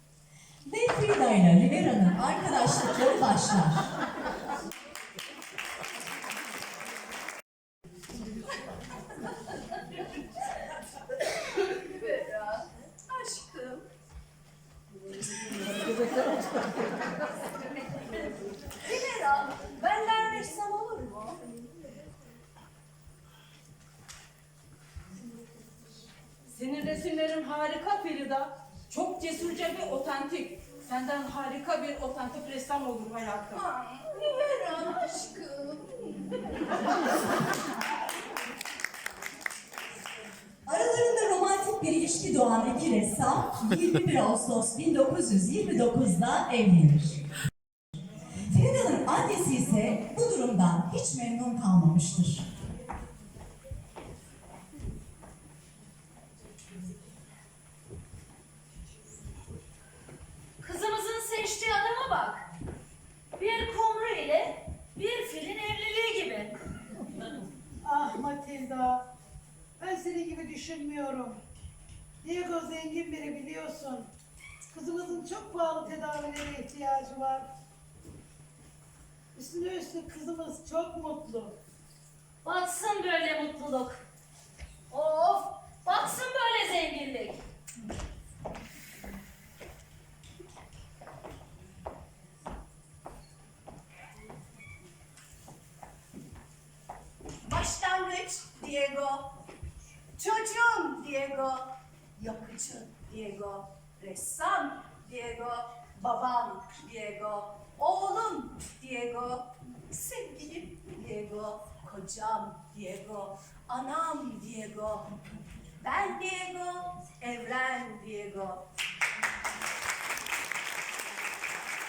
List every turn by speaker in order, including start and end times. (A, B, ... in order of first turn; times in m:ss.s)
0:00.7-0:03.9 A
0:11.6-0:13.9 B
0:18.8-0:21.4 B
0:26.5-0:33.6 C
0:33.6-0:36.3 B
0:40.7-0:47.2 A
0:48.5-0:52.5 A
1:00.6-1:02.4 D
1:03.4-1:06.5 D
1:07.8-1:09.1 E
1:09.8-1:11.4 E
1:12.2-1:14.1 E
1:14.7-1:17.5 E
1:19.4-1:21.6 E
1:22.4-1:23.9 C
1:25.8-1:27.3 D
1:26.0-1:27.3 C
1:37.4-1:39.3 B
1:40.2-1:55.2 B
1:55.8-1:58.6 B